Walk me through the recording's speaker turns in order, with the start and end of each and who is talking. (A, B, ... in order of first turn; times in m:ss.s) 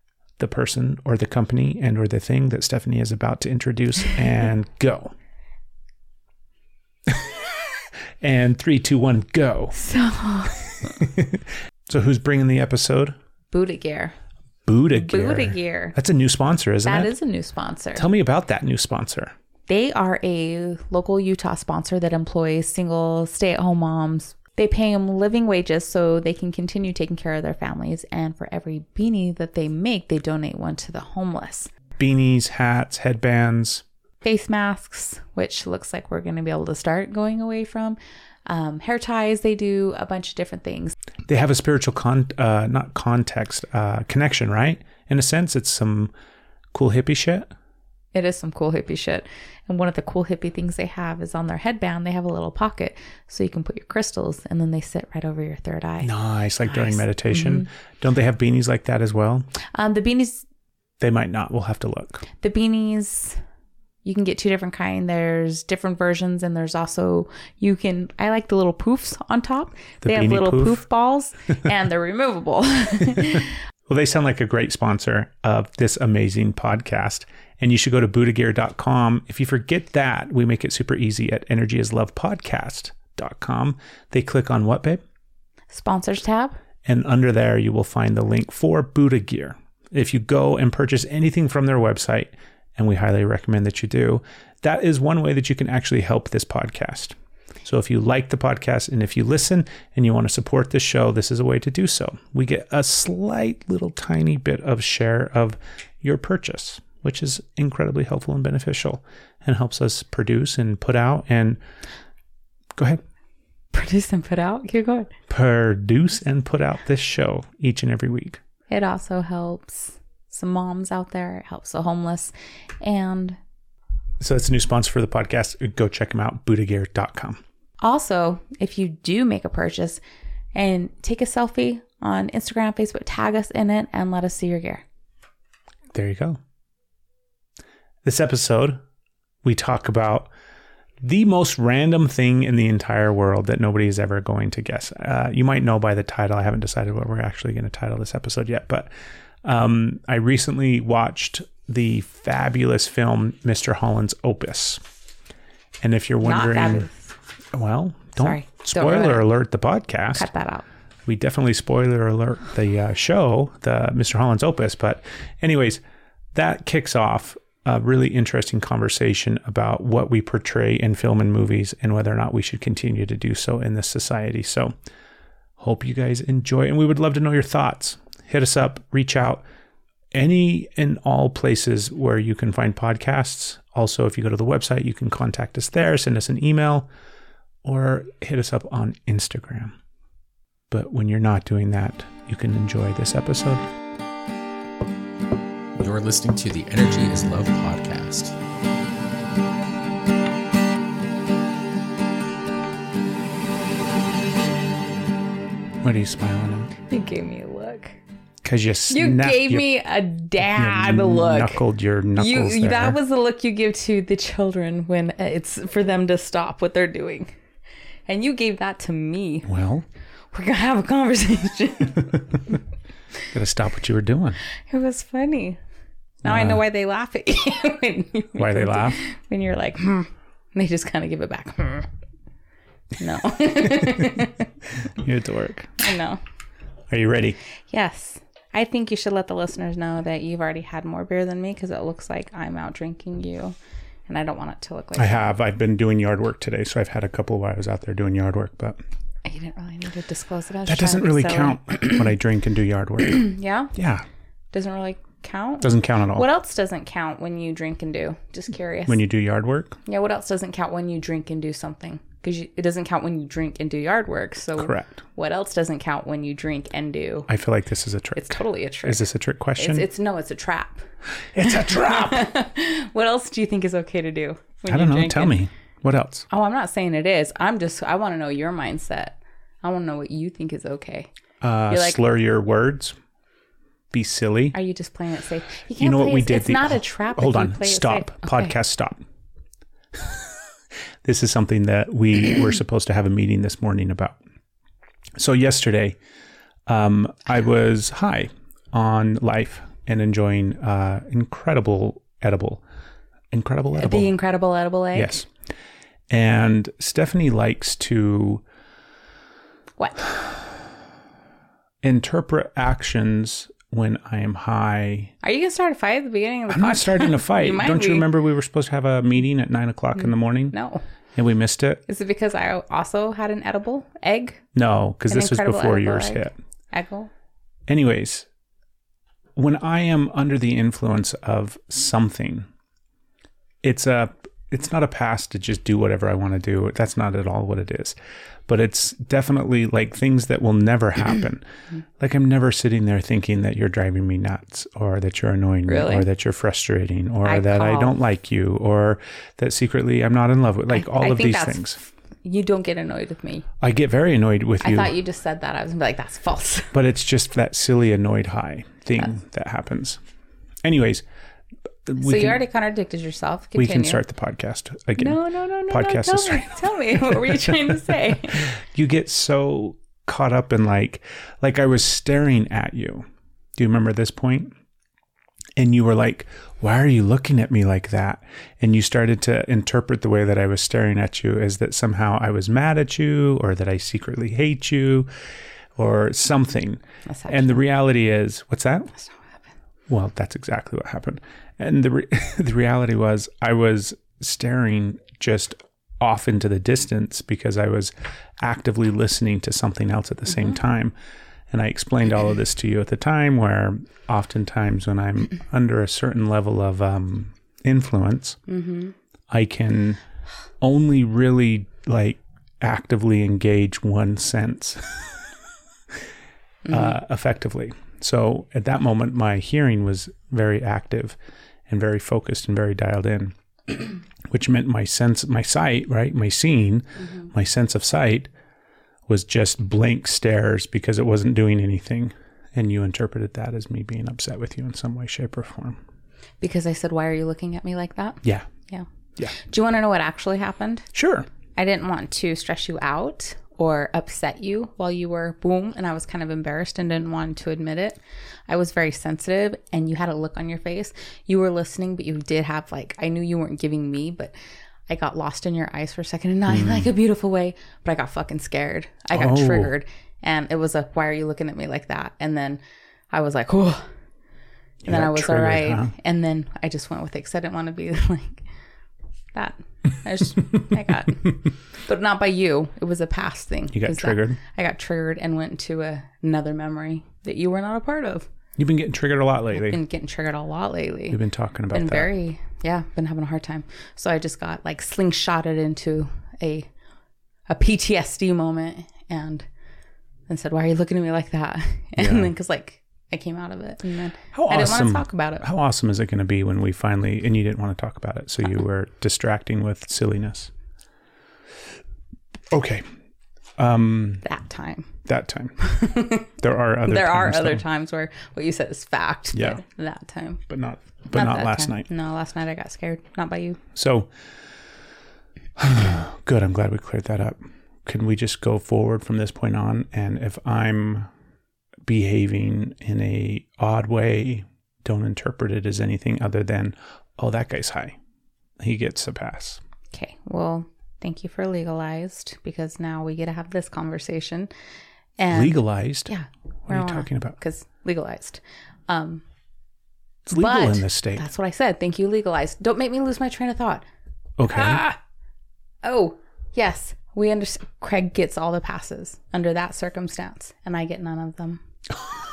0:00.4-0:05.1 A
0:07.1-0:07.3 A
0:08.2-0:09.8 A
0:09.7-0:10.7 B
0:10.8-0:13.2 A
0:13.5-0:14.2 B
0:14.6-0:17.1 A
0:14.9-0:16.0 B
0:16.8-0:18.0 B
0:18.0-0:19.3 A
0:19.7-0:31.7 B
0:32.0-0:33.8 A
0:34.2-0:41.0 B
0:41.3-0:46.1 A
0:46.7-0:47.5 A
0:48.1-0:56.1 B
0:56.0-0:59.5 A
0:56.7-0:57.7 B
0:59.7-1:00.4 B
1:01.0-1:02.3 A
1:02.3-1:03.4 B
1:04.0-1:13.6 B
1:10.0-1:10.8 A
1:13.9-1:25.0 A
1:25.7-1:26.6 B
1:26.8-1:51.6 A
1:52.8-1:53.0 A
1:53.7-1:55.1 B
1:55.3-1:58.4 A
1:58.7-2:03.4 B
2:04.2-2:07.4 A
2:07.8-2:10.0 B
2:10.5-2:14.8 B
2:15.9-2:16.4 A
2:18.0-2:18.8 A
2:19.4-2:20.3 A
2:21.0-2:28.9 A
2:29.4-2:34.8 A
2:35.8-2:36.9 A
2:36.2-2:37.1 B
2:37.5-2:40.3 A
2:38.2-2:39.3 B
2:40.1-2:40.6 B
2:41.0-2:45.8 A
2:46.3-2:54.7 A
2:55.6-2:59.4 A
3:00.1-3:06.9 A
3:07.6-3:09.8 A
3:10.7-3:13.6 A
3:15.8-3:18.3 C
3:25.8-3:26.8 A
3:26.9-3:28.0 B
3:28.4-3:29.7 A
3:28.9-3:31.6 B
3:30.5-3:33.0 A
3:32.1-3:37.3 B
3:38.0-3:39.5 B
3:39.4-3:39.8 A
3:40.3-3:42.1 B
3:43.3-3:44.4 A
3:44.7-3:45.6 B
3:46.2-3:46.6 A
3:46.2-3:51.9 B
3:48.4-3:49.0 A
3:53.0-3:54.5 B
3:54.8-3:55.8 A
3:55.8-3:56.2 B
3:56.9-3:57.4 A
3:57.7-4:03.6 B
4:04.1-4:05.2 B
4:05.0-4:08.8 A
4:09.2-4:12.1 B
4:10.7-4:14.0 A
4:13.1-4:13.7 B
4:14.5-4:19.0 B
4:15.6-4:16.3 A
4:18.9-4:19.8 A
4:19.9-4:27.3 B
4:24.6-4:25.0 A
4:27.3-4:29.9 A
4:28.1-4:29.0 B
4:29.6-4:30.8 B
4:31.3-4:32.3 A
4:31.6-4:35.4 B
4:34.7-4:36.3 A
4:36.3-4:41.1 B
4:41.4-4:43.0 A
4:41.7-4:42.0 B
4:43.9-4:44.6 A
4:44.5-4:48.6 B
4:45.8-4:49.0 A
4:51.0-4:54.2 A
4:55.2-4:56.0 A
4:56.7-5:02.6 A
5:03.3-5:04.1 A
5:03.8-5:05.1 B
5:04.9-5:05.3 A
5:06.1-5:08.4 A
5:09.8-5:10.0 B
5:11.8-5:15.1 A
5:15.2-5:18.1 B
5:16.5-5:20.6 A
5:20.0-5:20.8 B
5:21.1-5:21.8 A
5:21.9-5:24.4 B
5:24.5-5:26.4 A
5:25.1-5:27.1 B
5:27.7-5:28.3 A
5:29.4-5:32.5 A
5:33.6-5:38.0 A
5:38.5-5:41.4 A
5:42.0-5:51.8 A
5:45.7-5:46.1 B
5:47.2-5:48.0 B
5:50.7-5:53.5 B
5:53.6-5:54.9 A
5:54.6-5:56.7 B
5:56.7-6:00.0 A
6:00.6-6:01.0 A
6:01.9-6:02.4 A
6:02.0-6:04.0 B
6:03.6-6:06.5 A
6:05.0-6:08.5 B
6:08.4-6:14.5 A
6:15.6-6:25.1 A
6:25.8-6:28.9 A
6:27.1-6:27.6 B
6:29.0-6:29.4 B
6:29.9-6:40.9 A
6:41.5-6:48.4 A
6:48.5-6:48.9 B
6:49.3-6:50.0 A
6:50.6-6:55.1 A
6:56.7-7:01.2 A
7:01.7-7:08.3 A
7:09.1-7:15.8 A
7:16.4-7:20.9 B
7:18.2-7:18.5 A
7:20.9-7:21.3 A
7:21.6-7:34.3 B
7:34.9-7:43.8 B
7:36.5-7:36.9 A
7:39.1-7:39.7 A
7:44.8-7:45.9 A
7:44.9-7:48.4 B
7:49.3-7:58.3 B
7:53.7-7:54.4 A
7:58.6-7:59.8 A
7:59.5-8:01.2 B
8:01.1-8:02.2 A
8:01.7-8:06.7 B
8:07.5-8:09.4 B
8:10.3-8:15.4 B
8:12.0-8:12.3 A
8:14.3-8:20.5 A
8:22.5-8:22.8 A
8:23.6-8:24.2 A
8:24.2-8:24.9 B
8:25.0-8:25.6 A
8:25.6-8:26.3 B
8:26.3-8:27.6 A
8:26.8-8:30.4 B
8:29.3-8:29.6 A
8:30.5-8:31.9 A
8:31.1-8:33.6 B
8:33.8-8:34.1 A
8:35.6-8:41.1 A
8:41.9-8:48.0 A
8:48.6-8:49.6 A
8:49.9-8:54.5 B
8:55.2-8:59.2 B
8:55.3-8:56.1 A
8:56.6-8:57.4 A
9:00.2-9:01.2 A
9:00.3-9:03.9 B
9:04.4-9:05.0 A
9:04.5-9:04.9 B
9:05.8-9:11.6 B